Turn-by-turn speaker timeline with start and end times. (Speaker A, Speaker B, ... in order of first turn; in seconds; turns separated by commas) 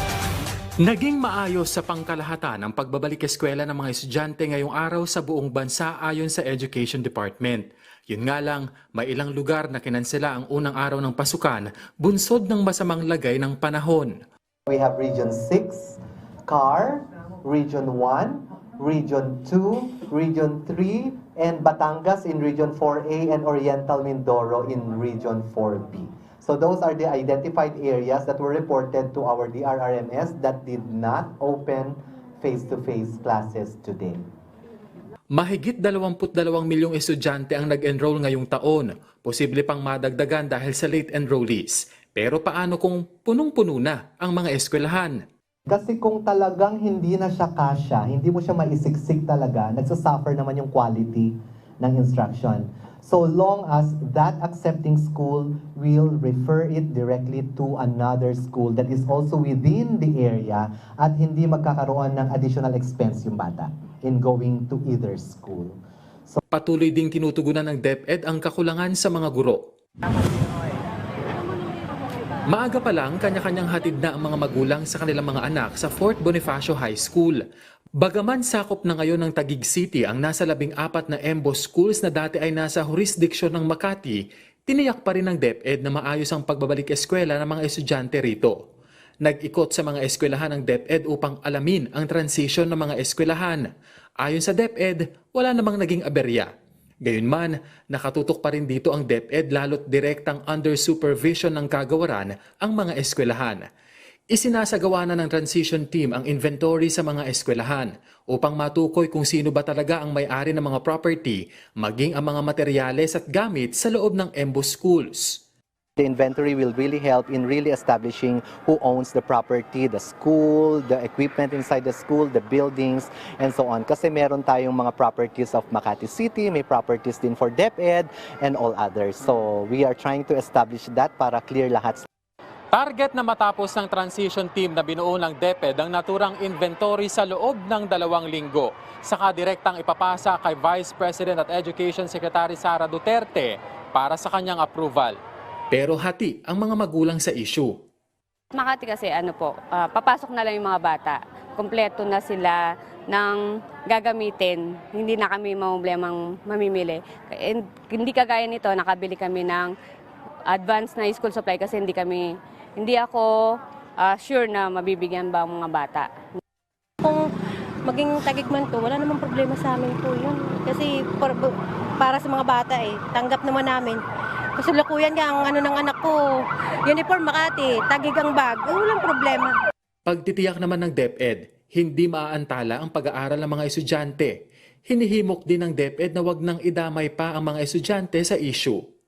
Speaker A: 0.8-14.2, Speaker B: 14.7-34.2, Speaker A: 35.3-45.2, Speaker B: 45.7-65.8, Speaker A: 66.5-69.6, Speaker A: 72.5-77.4, Speaker A: 78.0-88.5, Speaker A: 89.2-93.7, Speaker A: 94.2-96.5, Speaker A: 97.0-103.7, Speaker A: 104.3-115.4, Speaker B: 116.0-132.1, Speaker A: 132.7-145.2, Speaker A: 145.7-147.7, Speaker C: 148.6-152.6, Speaker C: 153.1-159.7, Speaker C: 160.5-162.3, Speaker C: 162.8-163.3, Speaker C: 164.0-166.1, Speaker D: 167.9-174.0, Speaker D: 174.6-176.2, Speaker D: 176.9-179.5, Speaker A: 180.1-184.3, Speaker A: 184.9-188.8